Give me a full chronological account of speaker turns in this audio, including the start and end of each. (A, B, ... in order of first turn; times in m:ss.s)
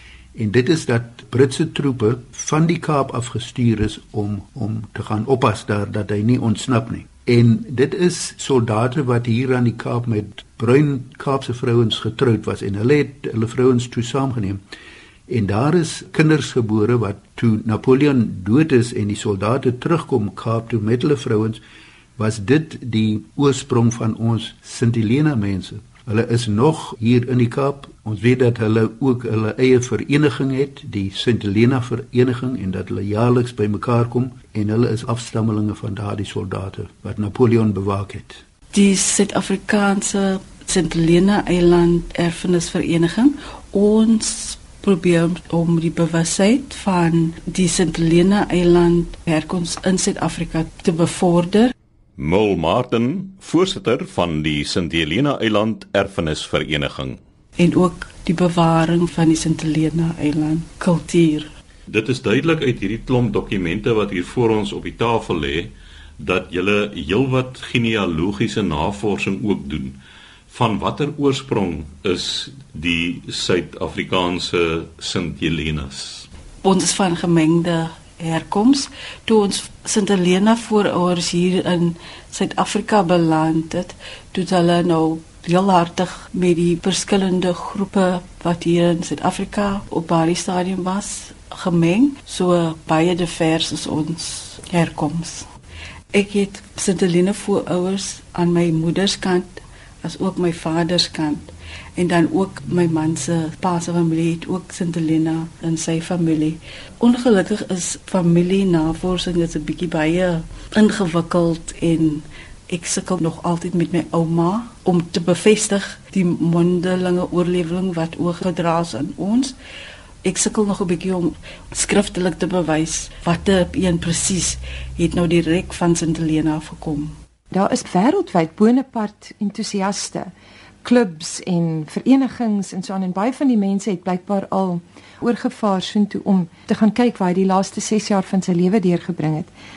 0:00.3-0:14.6 A
0:15.3-0:21.6 A
0:22.2-0:38.4 A
0:38.7-0:51.7 B
0:52.2-0:57.2 C
0:57.6-1:01.5 B
1:01.9-1:10.0 C
1:10.5-1:16.3 C
1:16.6-1:35.5 B
1:36.1-1:59.6 B
2:00.2-2:07.2 B
2:07.5-2:10.3 D
2:10.8-2:19.5 D